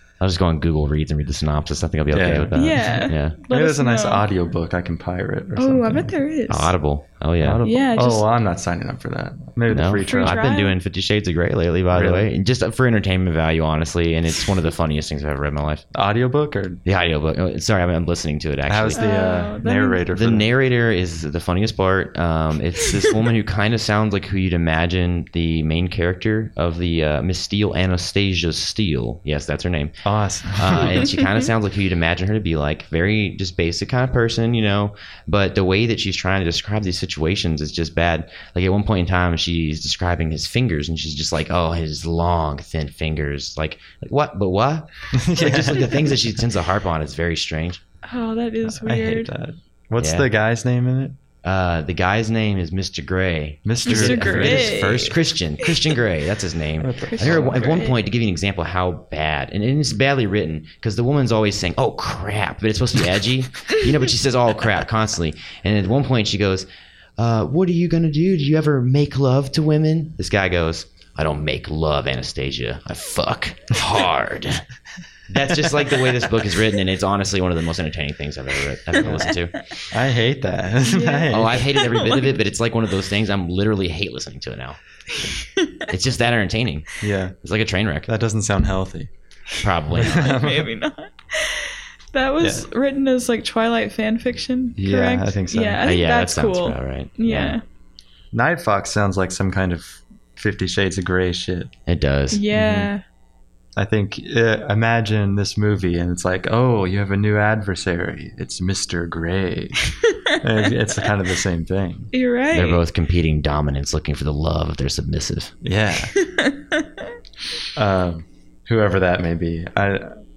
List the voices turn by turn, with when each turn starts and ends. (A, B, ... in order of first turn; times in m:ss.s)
0:00.2-0:03.4 A
0:02.1-0:06.1 B
0:02.5-0:04.2 C
0:05.6-0:06.7 C
0:06.5-0:07.6 A
0:07.4-0:10.4 B
0:07.6-0:08.2 C
0:09.7-0:15.8 A
0:10.1-0:10.7 C
0:11.9-0:12.3 B
0:15.9-0:16.8 B
0:16.8-0:19.0 A
0:18.7-0:20.5 B
0:18.9-0:20.0 C
0:20.1-0:29.9 A
0:30.0-0:31.0 B
0:30.5-0:47.8 A
0:45.1-0:46.1 B
0:48.0-0:49.3 C
0:48.7-0:51.2 B
0:50.0-0:50.2 A
0:51.4-1:06.7 A
0:53.6-0:54.8 B
0:53.8-0:55.7 C
0:56.8-0:57.6 B
0:57.1-0:58.0 C
1:07.2-1:14.6 A
1:15.3-1:19.7 A
1:19.0-1:19.3 B
1:19.9-1:21.7 B
1:20.8-1:22.3 C
1:21.3-1:24.8 A
1:25.1-1:25.9 C
1:25.9-1:28.1 A
1:27.0-1:27.4 B
1:28.0-1:29.1 B
1:29.6-1:30.3 A
1:29.9-1:30.7 B
1:30.0-1:37.6 C
1:32.4-1:32.6 B
1:34.8-1:35.8 B
1:35.8-1:37.6 A
1:38.3-1:41.7 B
1:41.9-1:42.4 A
1:42.3-1:43.0 C
1:42.5-1:42.9 B
1:43.8-1:52.1 B
1:49.9-1:50.4 C
1:52.1-1:52.8 C
1:52.5-1:55.5 A
1:55.6-1:56.1 B
1:56.2-1:56.9 C
1:57.8-2:00.2 B